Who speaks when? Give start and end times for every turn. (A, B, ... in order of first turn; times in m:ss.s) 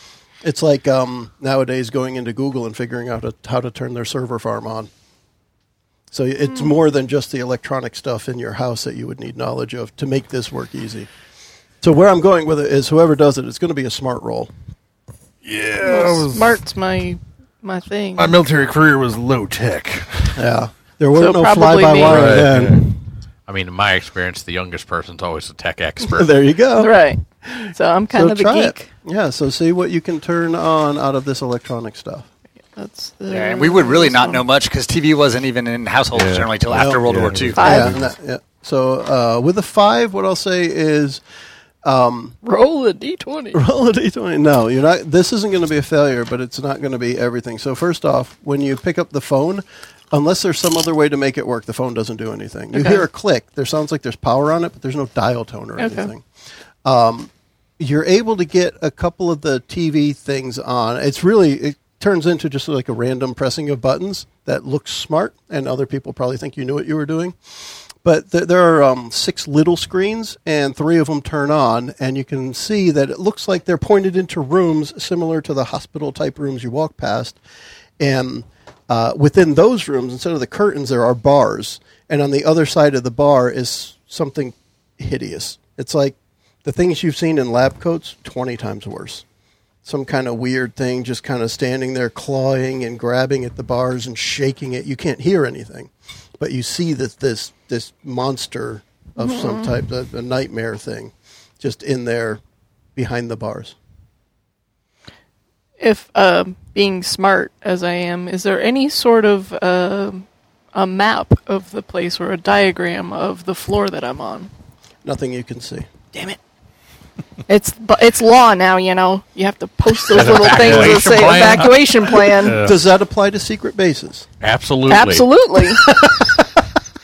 0:00.4-0:04.9 A
0:06.1-0:11.1 A
0:11.8-0:14.5 A
0:15.4-0:16.6 B
0:15.8-0:18.3 C
0:18.2-0:20.4 B
0:20.3-0:23.0 A
0:21.1-0:22.4 C
0:22.0-0:22.8 B
0:23.5-0:26.3 D
0:26.1-0:32.3 A
0:26.8-0:28.9 C
0:32.8-0:34.4 C
0:33.3-0:37.7 E
0:36.1-0:38.1 B
0:36.7-0:41.2 A
0:37.5-0:38.0 C
0:41.8-0:42.4 A
0:42.4-0:43.6 C
0:43.5-0:56.2 A
0:52.7-0:53.0 C
0:55.8-0:56.1 C
0:56.8-1:17.4 A
1:18.0-1:29.2 A
1:29.8-1:42.4 A
1:39.2-1:39.7 C
1:42.9-1:43.7 A
1:45.8-1:54.5 C
1:55.0-1:55.9 A
1:57.5-2:02.6 C
2:00.1-2:02.5 D
2:00.1-2:02.8 B
2:02.4-2:04.2 A
2:04.4-2:05.3 D
2:04.9-2:06.0 C
2:05.8-2:06.6 A